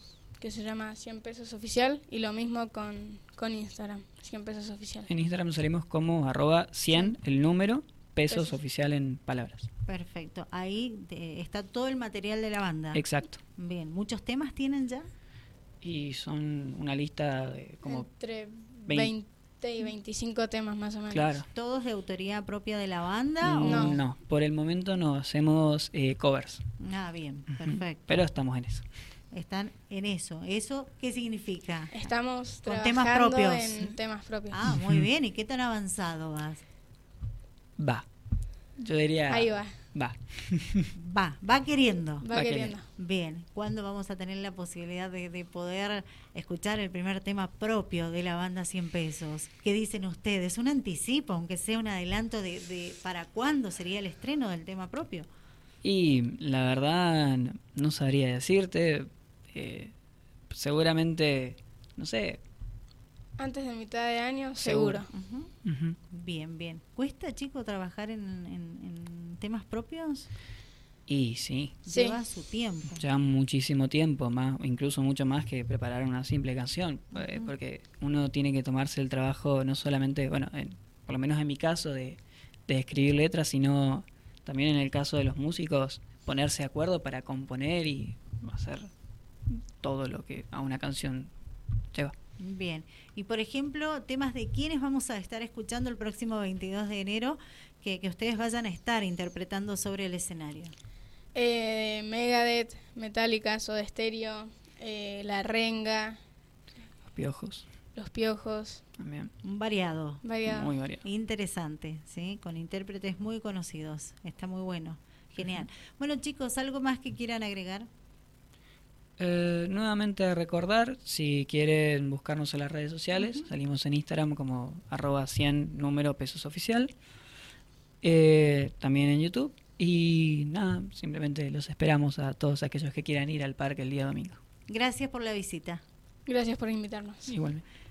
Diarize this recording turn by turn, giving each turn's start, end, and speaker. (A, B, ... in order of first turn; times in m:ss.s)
0:00.4-0:05.1 A
0:05.1-0:09.7 B
0:08.3-0:08.6 A
0:09.8-0:13.0 C
0:12.9-0:13.4 B
0:13.5-0:15.1 C
0:15.8-0:18.1 B
0:17.8-0:21.3 A
0:18.9-0:19.1 B
0:21.1-0:21.5 B
0:21.5-0:24.0 C
0:23.4-0:26.6 B
0:23.6-0:24.0 A
0:26.8-0:28.2 C
0:27.6-0:28.8 B
0:29.3-0:32.0 C
0:31.9-0:34.5 A
0:32.6-0:33.9 C
0:34.5-0:36.6 C
0:34.7-0:35.0 B
0:37.8-0:38.1 B
0:38.8-0:40.9 B
0:39.3-0:39.8 A
0:40.9-0:42.3 C
0:42.2-0:42.9 A
0:42.3-0:42.7 B
0:43.0-0:55.3 C
0:55.8-0:59.9 B
1:00.5-1:02.4 B
1:03.4-1:05.1 A
1:04.6-1:05.0 B
1:05.1-1:05.5 C
1:05.6-1:06.0 B
1:06.1-1:10.3 C
1:11.1-1:11.8 B
1:11.8-1:13.0 C
1:11.9-1:12.2 A
1:12.9-1:28.9 B
1:17.2-1:17.5 C
1:29.5-1:31.3 B
1:32.4-1:40.7 C
1:41.3-1:46.2 A
1:47.1-1:47.7 B
1:47.9-1:48.8 A
1:49.0-1:49.3 B
1:49.4-1:50.2 C
1:50.2-1:50.7 A
1:50.4-1:51.0 B
1:51.0-1:57.9 C
1:59.2-2:06.9 B
2:03.2-2:03.4 C
2:08.0-2:14.4 B
2:14.7-2:15.8 C
2:16.2-2:17.3 A
2:17.3-2:17.6 B